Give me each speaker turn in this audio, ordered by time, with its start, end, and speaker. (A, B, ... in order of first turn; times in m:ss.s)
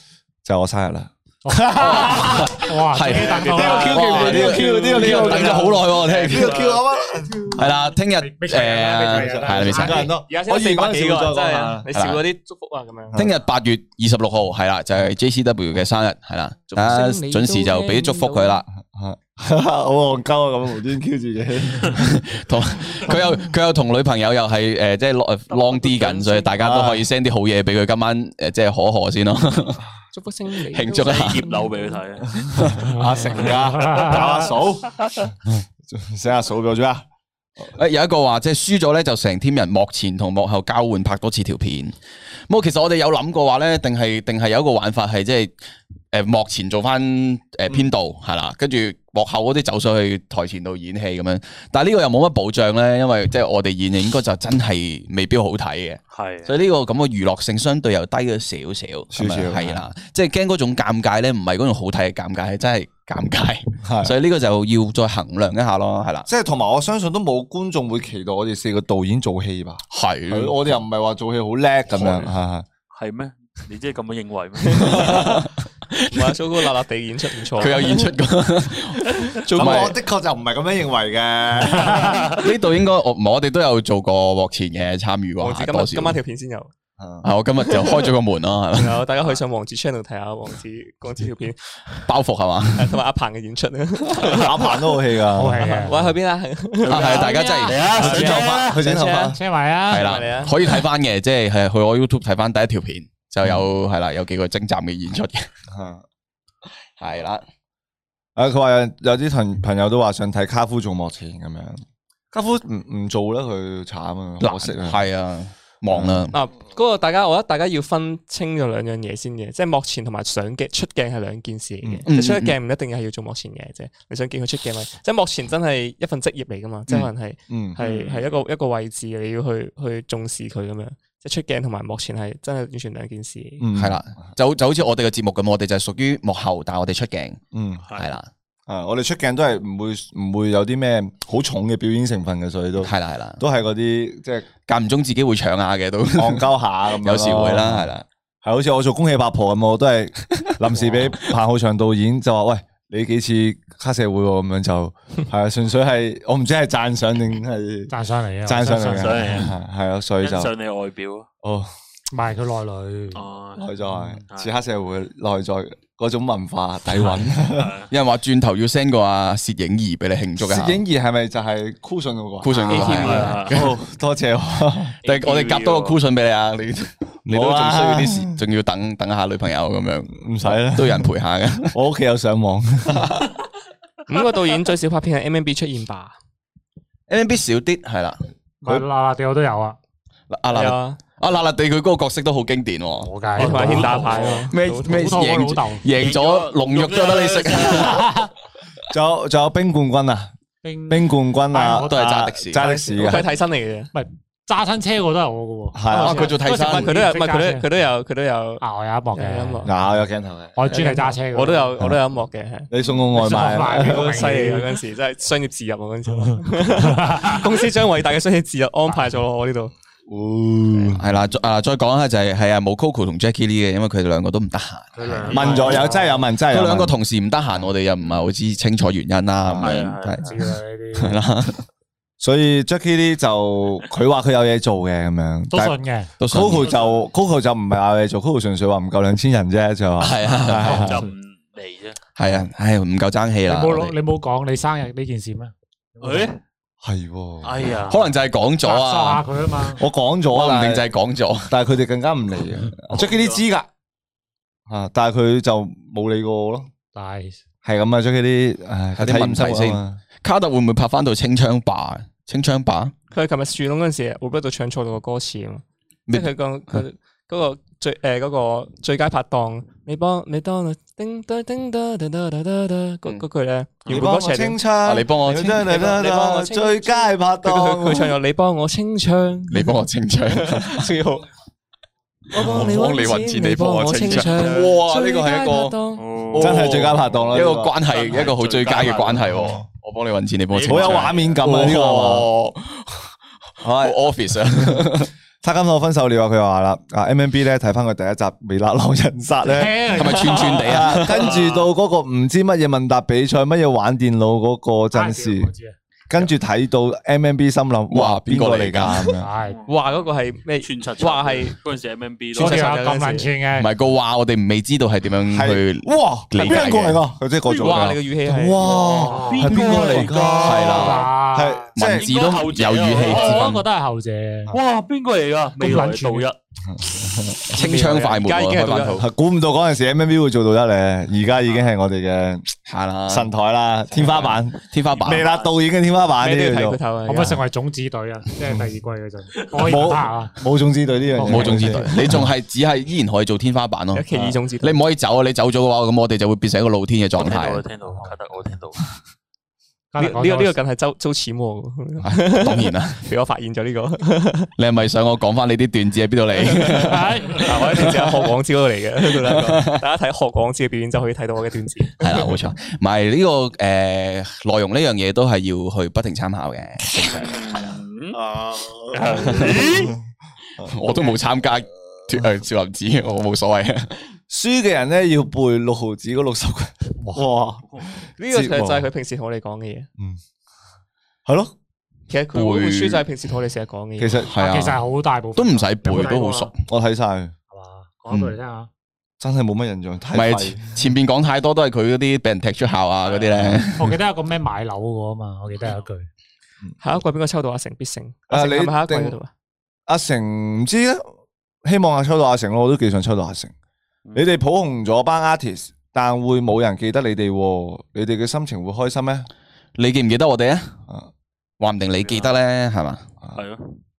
0:00.4-0:02.6 A
0:01.4-0:04.5 B
0:01.8-0:06.6 C
0:03.5-0:07.6 A
0:04.3-0:07.0 D
0:07.6-0:10.1 C
0:08.1-0:10.1 B
0:09.1-0:11.9 A
0:10.1-0:13.2 D
0:11.9-0:12.2 C
0:13.2-0:18.6 C
0:16.7-0:18.6 D
0:18.7-0:22.0 A
0:21.9-0:29.8 C
0:25.5-0:26.6 D
0:26.6-0:27.1 A
0:30.1-0:32.0 D
0:30.7-0:31.5 C
0:31.0-0:32.8 E
0:32.6-0:35.0 A
0:33.5-0:34.2 B
0:33.5-0:34.5 E
0:35.9-0:37.0 A
0:37.8-0:42.0 C
0:42.5-0:45.6 C
0:46.1-1:06.3 C
0:56.1-0:56.5 E
0:59.1-0:59.8 A
1:03.8-1:04.2 A
1:06.3-1:12.7 A
1:09.9-1:10.6 C
1:12.0-1:12.3 E
1:12.9-1:15.2 E
1:14.8-1:15.3 D
1:14.9-1:16.3 C
1:16.1-1:18.1 D
1:17.5-1:20.0 C
1:19.4-1:19.9 D
1:19.6-1:22.2 A
1:21.9-1:22.4 E
1:22.3-1:26.2 C
1:25.4-1:26.7 D
1:27.0-1:27.3 A
1:27.2-1:29.1 C
1:28.8-1:32.1 D
1:32.1-1:33.0 C
1:32.8-1:34.9 D
1:34.2-1:35.8 A
1:35.3-1:36.0 B
1:35.6-1:37.3 D
1:36.8-1:38.7 E
1:36.9-1:38.6 C
1:37.1-1:38.0 B
1:38.0-1:39.4 A
1:38.0-1:39.4 D
1:39.1-1:40.5 B
1:39.9-1:40.5 D
1:39.9-1:45.5 C
1:45.7-1:46.0 A
1:47.0-1:47.4 C
1:48.4-1:55.0 A
1:54.4-1:56.3 C
1:55.9-1:56.3 A
1:56.3-2:13.6 D
2:02.1-2:02.6 C
2:06.9-2:07.8 A
2:07.8-2:08.4 E
2:13.6-2:14.2 A
2:13.7-2:17.4 C
2:17.5-2:17.9 A
2:17.8-2:18.1 E
2:18.0-2:18.3 C
2:18.7-2:24.5 A
2:22.8-2:23.4 C
2:24.7-2:28.0 C
2:26.2-2:27.9 A
2:28.4-2:37.9 A
2:37.9-2:39.5 B
2:38.4-2:40.5 A
2:38.9-2:39.5 E
2:40.2-2:41.3 E
2:41.4-2:41.7 A
2:42.1-2:43.2 B
2:43.1-2:43.7 E
2:43.6-2:47.7 A
2:43.9-2:44.2 B
2:44.3-2:44.6 E
2:47.5-2:47.9 E
2:47.9-2:50.8 C
2:50.4-2:55.0 A
2:52.4-2:53.7 C
2:52.7-2:53.5 D
2:52.8-2:53.5 E
2:55.0-2:56.0 E
2:55.0-3:01.8 C
2:57.3-2:58.4 A
3:00.2-3:01.1 A
3:01.7-3:03.2 A
3:04.1-3:06.2 D
3:07.1-3:08.2 C
3:08.6-3:09.8 B
3:10.3-3:18.1 C
3:10.5-3:11.0 D
3:13.0-3:15.8 B
3:13.4-3:15.1 D
3:15.9-3:18.1 E
3:17.9-3:18.3 B
3:18.9-3:20.3 A
3:20.6-3:22.1 B
3:20.9-3:23.3 A
3:21.8-3:22.6 C
3:22.6-3:23.9 D
3:23.9-3:27.7 B
3:25.7-3:26.3 A
3:25.9-3:27.0 C
3:26.0-3:29.7 D
3:28.6-3:30.0 B
3:29.6-3:30.6 A
3:30.6-3:31.8 B
3:30.7-3:39.7 D
3:32.7-3:34.4 A
3:33.2-3:34.7 B
3:36.3-3:37.4 B
3:40.1-3:41.1 A
3:40.8-3:50.5 C
3:45.0-3:46.1 B
3:45.3-3:47.0 A
3:48.0-3:48.3 E
3:49.4-3:50.0 A
3:49.6-3:50.4 E
3:50.2-3:51.2 B
3:51.0-3:51.6 C
3:52.2-4:01.0 A
3:55.5-3:56.1 B
3:56.2-3:56.7 C
3:56.6-3:57.1 E
4:00.0-4:00.9 C
4:00.6-4:02.0 E
4:00.7-4:01.1 B
4:02.2-4:04.0 C
4:03.5-4:06.3 B
4:06.0-4:06.4 E
4:06.8-4:07.6 A
4:07.4-4:08.1 E
4:07.9-4:09.2 C
4:08.6-4:09.8 B
4:09.8-4:10.9 A
4:10.3-4:11.5 C
4:11.5-4:13.7 A
4:12.9-4:13.4 E
4:14.7-4:16.7 A
4:16.9-4:17.4 B
4:17.6-4:20.0 A
4:19.0-4:22.9 C
4:23.1-4:34.6 D
4:26.1-4:26.8 C
4:33.9-4:38.2 A
4:34.8-4:35.8 C
4:35.6-4:39.7 D
4:39.5-4:40.9 C
4:40.3-4:41.3 D
4:42.3-4:46.0 D
4:42.3-4:45.7 C
4:42.4-4:42.8 A
4:44.1-4:44.8 E
4:44.4-4:45.7 A
4:46.0-4:49.5 E
4:46.3-4:47.8 A
4:46.4-4:53.1 C
4:49.2-4:49.6 A
4:50.5-4:51.4 E
4:50.7-4:52.3 A
4:53.6-5:05.5 A
4:53.8-4:55.1 C
4:59.5-5:00.6 B
4:59.8-5:01.5 C
5:00.3-5:00.6 D
5:04.9-5:05.8 B
5:06.1-5:09.3 A
5:07.9-5:09.1 C
5:09.2-5:09.6 B
5:09.4-5:12.8 E
5:09.7-5:11.6 D
5:12.4-5:13.7 B
5:12.4-5:13.3 D
5:13.5-5:17.0 C
5:15.3-5:22.1 A
5:17.5-5:18.0 E
5:17.5-5:18.8 D
5:18.6-5:21.1 E
5:19.0-5:19.9 B
5:20.4-5:21.1 C
5:20.7-5:21.7 B
5:21.8-5:23.6 C
5:21.8-5:23.5 E
5:23.0-5:24.6 B
5:24.5-5:26.4 E
5:25.6-5:26.3 B
5:26.7-5:27.5 A
5:27.5-5:29.1 C
5:27.6-5:29.0 D
5:29.0-5:32.5 A
5:32.7-5:33.3 C
5:33.1-5:36.8 A
5:34.1-5:35.3 C
5:34.9-5:35.6 E
5:36.2-5:37.4 D
5:37.1-5:40.4 B
5:39.4-5:39.8 E
5:39.6-5:42.3 A
5:41.2-5:41.8 B
5:41.2-5:47.6 C
5:43.9-5:44.8 D
5:47.2-5:48.8 E
5:49.9-5:50.6 B
5:50.0-5:54.5 D
5:52.0-5:53.0 C
5:54.6-5:57.9 C
5:56.5-6:02.1 D
5:56.8-5:57.9 B
5:59.2-5:59.6 C
6:02.0-6:07.8 C
6:07.2-6:08.2 E
6:08.2-6:10.0 A
6:08.9-6:09.9 E
6:10.6-6:10.9 A
6:10.6-6:13.9 C
6:14.3-6:17.6 A
6:17.7-6:18.0 E
6:18.2-6:19.9 D
6:18.3-6:18.9 A
6:21.3-6:21.5 A
6:22.1-6:24.2 D
6:22.3-6:23.0 C
6:24.0-6:24.4 A
6:24.3-6:26.5 C
6:24.4-6:26.5 B
6:26.7-6:27.4 A
6:27.5-6:28.7 B
6:28.1-6:28.4 C
6:29.2-6:30.7 A
6:30.1-6:34.0 C
6:33.0-6:33.4 E
6:33.4-6:33.6 A
6:33.8-6:36.1 B
6:36.8-6:39.3 D
6:38.3-6:39.2 A
6:39.9-6:41.1 A
6:41.6-6:43.5 A
6:44.1-6:49.3 A
6:49.8-6:50.8 C
6:51.6-6:53.0 C
6:52.0-6:52.4 E
6:53.3-6:53.8 E